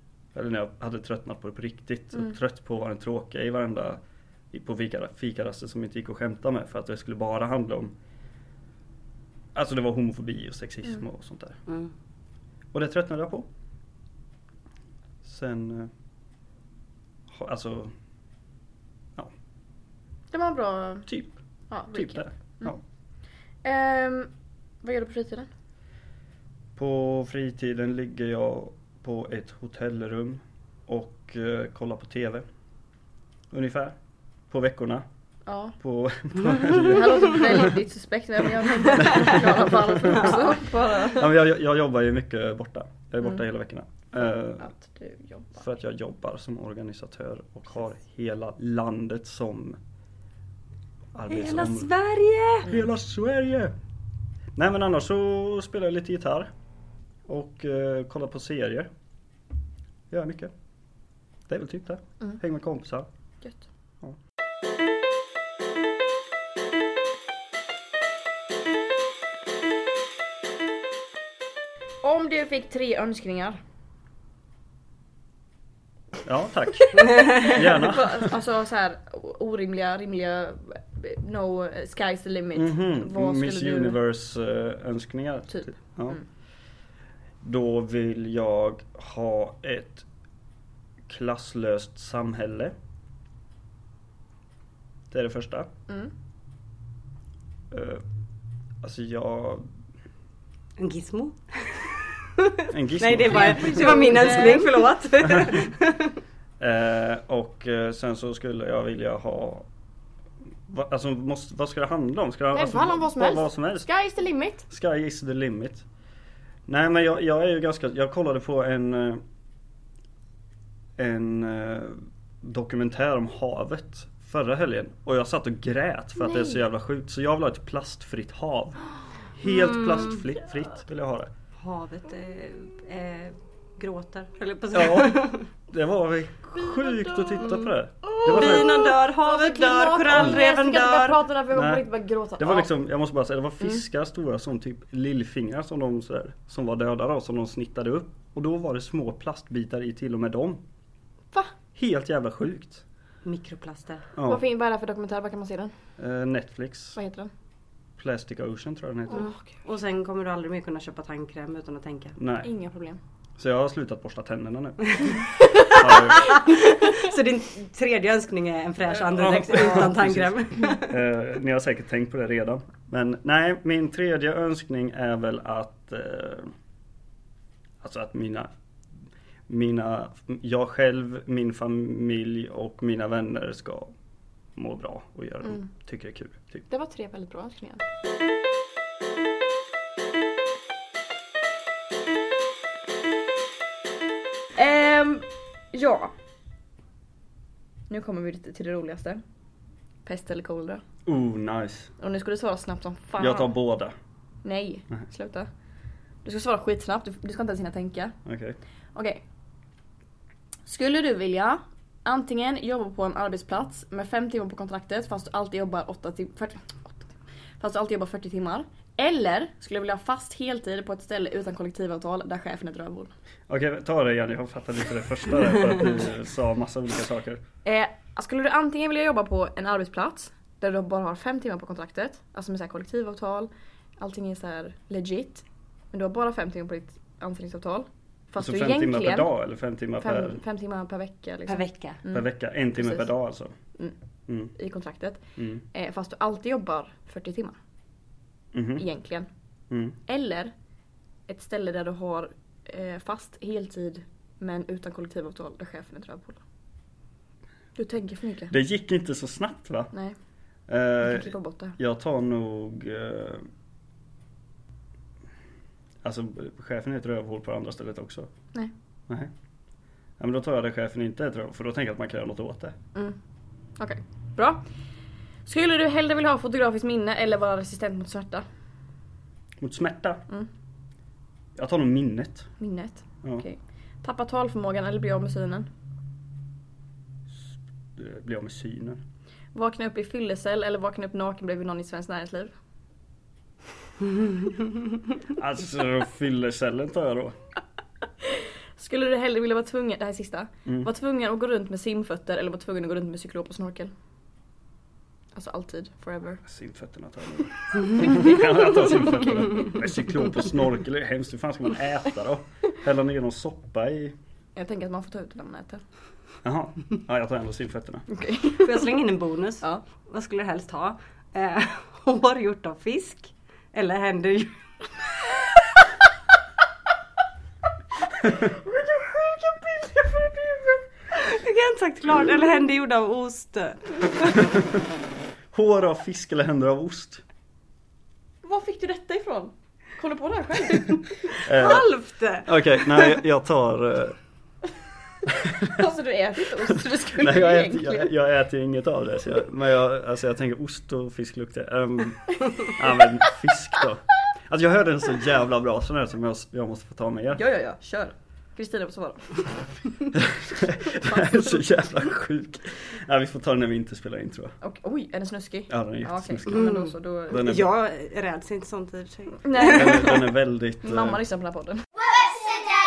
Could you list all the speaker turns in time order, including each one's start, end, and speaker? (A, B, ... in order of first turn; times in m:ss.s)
0:00.3-0:07.9 A
0:09.5-0:11.6 A
0:11.7-0:11.9 B
0:12.7-0:13.5 A
0:15.2-0:15.9 A
0:17.3-0:17.9 A
0:20.3-0:21.1 C
0:21.1-0:21.4 A
0:21.7-0:22.7 C
0:21.9-0:22.8 A
0:23.6-0:25.5 C
0:26.8-0:32.4 A
0:33.5-0:34.0 A
0:34.5-0:35.0 A
0:35.4-0:35.8 C
0:35.8-0:37.7 A
0:36.6-0:41.3 C
0:39.0-0:44.7 A
0:40.2-0:40.5 B
0:44.2-0:45.6 C
0:45.6-0:49.8 A
0:51.1-0:51.9 A
0:51.3-0:52.7 B
0:52.6-0:53.7 A
0:54.5-0:56.5 A
0:57.2-0:58.9 A
1:00.1-1:00.5 A
1:01.5-1:03.1 A
1:12.0-1:13.6 C
1:16.2-1:18.4 A
1:16.9-1:17.6 B
1:17.2-1:24.0 C
1:22.5-1:26.2 A
1:25.5-1:26.2 C
1:27.4-1:30.0 A
1:31.1-1:32.7 A
1:35.1-1:35.7 A
1:37.7-1:38.0 A
1:38.8-1:39.7 A
1:40.8-1:46.2 B
1:42.7-1:44.3 A
1:43.3-1:44.9 C
1:45.2-1:45.6 A
1:46.6-1:49.7 A
1:50.7-1:53.9 A
1:52.5-1:54.6 C
1:54.7-1:55.8 A
1:56.7-1:59.2 A
2:01.0-2:11.3 A
2:09.4-2:10.2 B
2:11.6-2:15.5 B
2:14.7-2:18.9 A
2:16.8-2:17.4 C
2:18.0-2:22.7 C
2:18.2-2:21.2 B
2:21.5-2:21.8 A
2:22.4-2:30.6 A
2:31.7-2:32.8 A
2:33.2-2:34.1 B
2:34.2-2:34.4 A
2:34.2-2:35.7 C
2:36.0-2:37.0 A
2:36.9-2:37.3 C
2:38.0-2:39.2 A
2:39.1-2:39.5 C
2:39.1-2:42.2 B
2:42.2-2:42.5 A
2:42.4-2:43.0 C
2:43.4-2:46.2 A
2:44.9-2:51.0 B
2:45.6-2:46.5 C
2:49.1-2:56.5 A
2:57.8-2:58.5 A
2:59.5-3:03.9 A
3:04.5-3:06.7 A
3:06.7-3:07.8 C
3:14.5-3:16.1 C
3:17.9-3:19.2 C
3:20.0-3:20.8 C
3:21.0-3:21.9 A
3:22.0-3:23.5 C
3:23.2-3:23.9 A
3:24.4-3:25.5 C
3:26.2-3:28.2 C
3:28.2-3:28.6 A
3:28.9-3:29.2 C
3:30.6-3:43.1 C
3:43.5-3:47.4 A
3:47.6-3:59.3 C
3:58.4-4:00.4 A
4:00.0-4:03.1 C
4:01.5-4:02.0 B
4:02.1-4:03.5 A
4:04.3-4:04.5 A
4:04.5-4:07.6 C
4:05.4-4:05.6 A
4:08.5-4:08.8 A
4:08.8-4:09.3 C
4:09.7-4:10.0 A
4:10.1-4:10.5 C
4:11.3-4:16.4 C
4:17.8-4:18.5 C
4:18.5-4:19.9 A
4:20.7-4:23.5 A
4:21.0-4:21.8 C
4:26.0-4:28.3 A
4:30.2-4:32.8 A
4:33.8-4:34.6 C
4:35.4-4:38.4 C
4:39.6-4:40.2 A
4:41.6-4:42.5 A
4:42.6-4:45.7 C
4:47.3-4:49.0 A
4:49.5-4:52.5 C
4:55.3-4:57.4 A
4:58.2-5:03.9 C
5:05.3-5:06.4 C
5:06.4-5:14.2 A
5:07.9-5:09.7 C
5:14.5-5:15.8 C
5:16.4-5:18.1 A
5:18.1-5:18.9 C
5:18.6-5:24.6 B
5:28.2-5:30.9 C
5:31.2-5:34.3 B
5:35.5-5:37.2 A
5:38.4-5:41.4 C
5:41.4-5:41.9 A
5:41.4-5:43.2 B
5:42.4-5:44.2 A
5:45.6-5:48.1 C
5:46.7-5:57.4 A
5:57.3-6:00.1 C
6:00.1-6:04.5 A
6:00.9-6:01.6 C
6:04.6-6:07.4 C
6:05.7-6:07.7 A
6:06.5-6:10.1 B
6:09.4-6:12.1 C
6:09.7-6:11.2 A